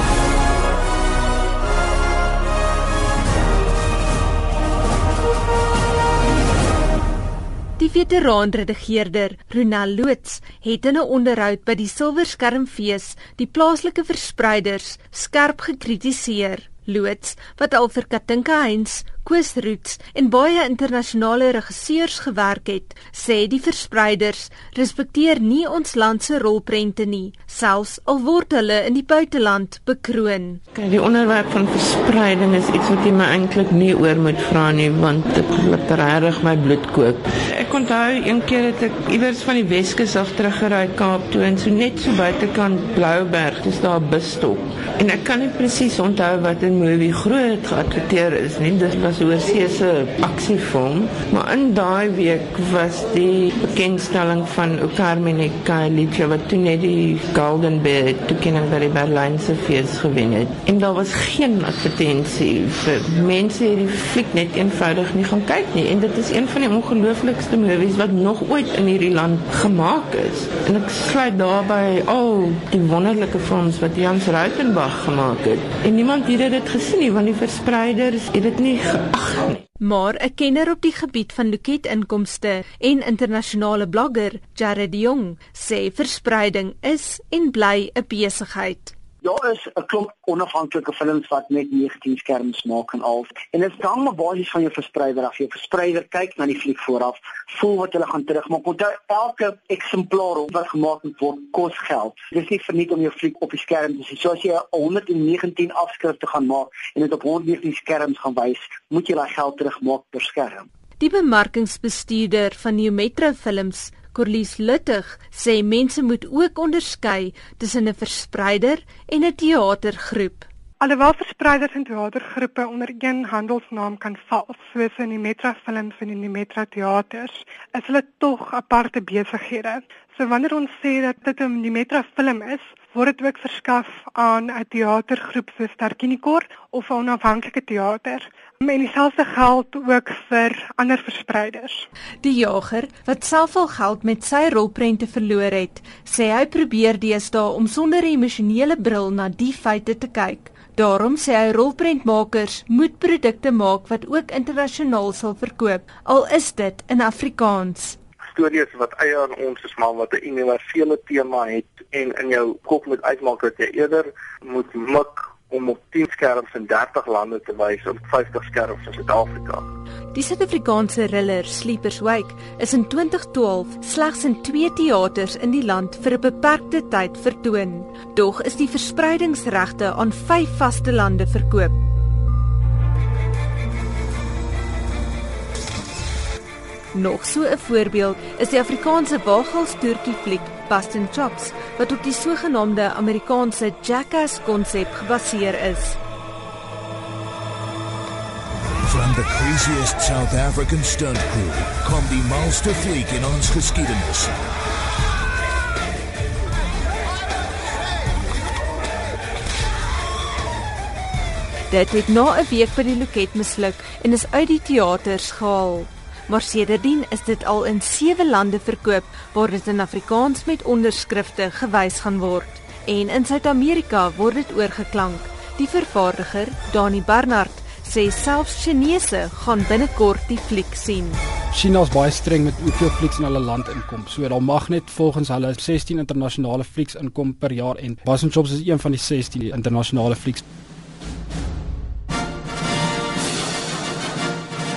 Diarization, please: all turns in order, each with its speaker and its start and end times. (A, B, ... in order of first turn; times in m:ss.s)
0:07.8-0:30.6 A
0:30.7-1:19.6 B
1:19.8-1:28.9 A
1:29.2-1:50.7 C
1:51.0-2:00.5 A
2:00.8-2:21.8 D
2:22.2-2:38.0 A
2:38.3-2:49.6 E
2:50.1-3:01.8 A
3:06.9-3:16.0 A
3:18.8-3:24.3 F
3:31.7-3:51.2 A
3:51.5-4:00.4 G